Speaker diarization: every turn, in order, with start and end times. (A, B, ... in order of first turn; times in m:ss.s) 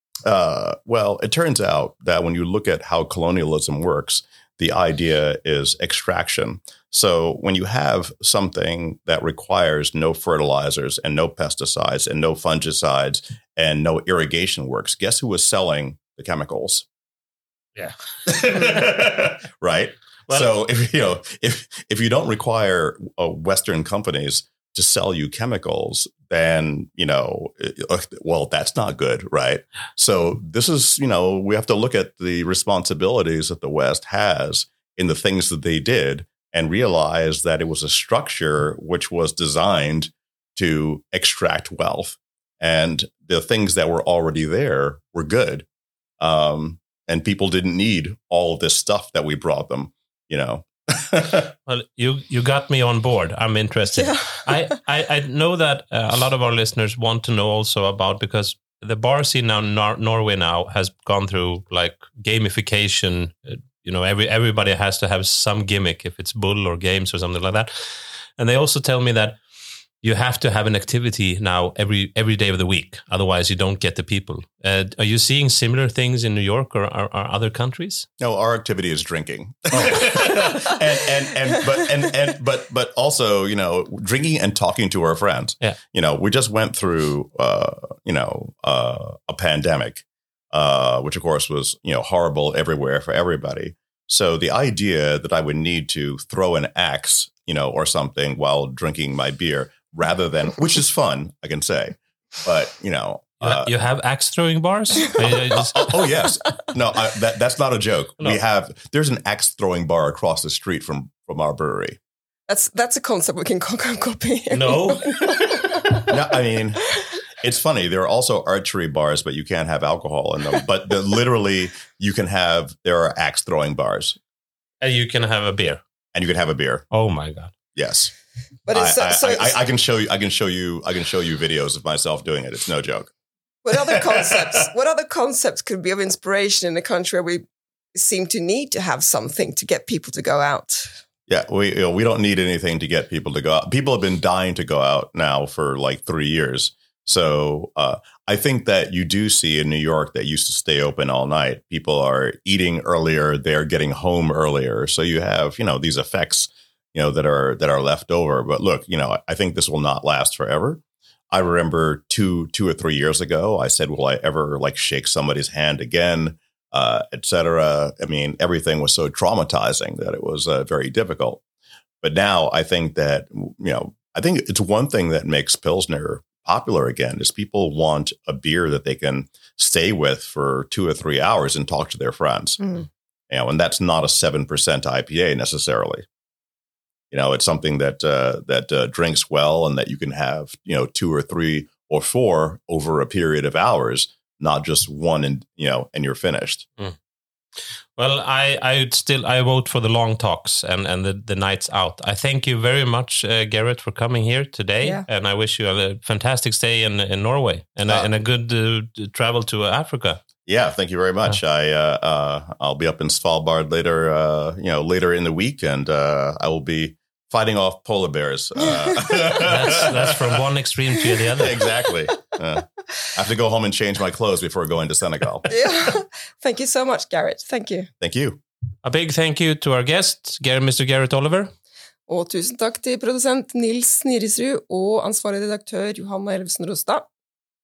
0:00.2-0:16.8 A
0:17.8-0:19.3 B
0:18.2-0:45.6 A
0:46.2-0:51.5 A
0:51.7-1:09.4 B
0:53.9-0:54.8 C
1:10.0-1:18.1 B
1:18.2-1:43.7 A
1:19.7-1:20.7 B
1:43.4-1:46.2 B
1:45.5-1:52.0 A
1:52.5-1:56.0 C
1:54.5-1:55.8 B
1:56.0-2:04.2 A
2:04.8-2:05.8 B
2:06.1-2:06.9 A
2:06.9-2:07.5 B
2:07.7-2:08.1 A
2:08.7-2:09.6 C
2:08.7-2:13.1 A
2:13.6-2:17.4 C
2:13.7-2:14.1 A
2:17.9-2:21.0 C
2:21.3-2:51.4 A
2:52.0-3:02.8 A
3:03.3-3:06.0 A
3:07.1-3:16.7 A
3:18.0-3:30.2 B
3:30.4-3:40.4 A
3:39.4-3:41.6 B
3:41.3-3:45.5 A
3:45.5-3:47.9 C
3:48.0-3:48.4 A
3:48.8-3:51.5 B
3:52.1-3:57.1 C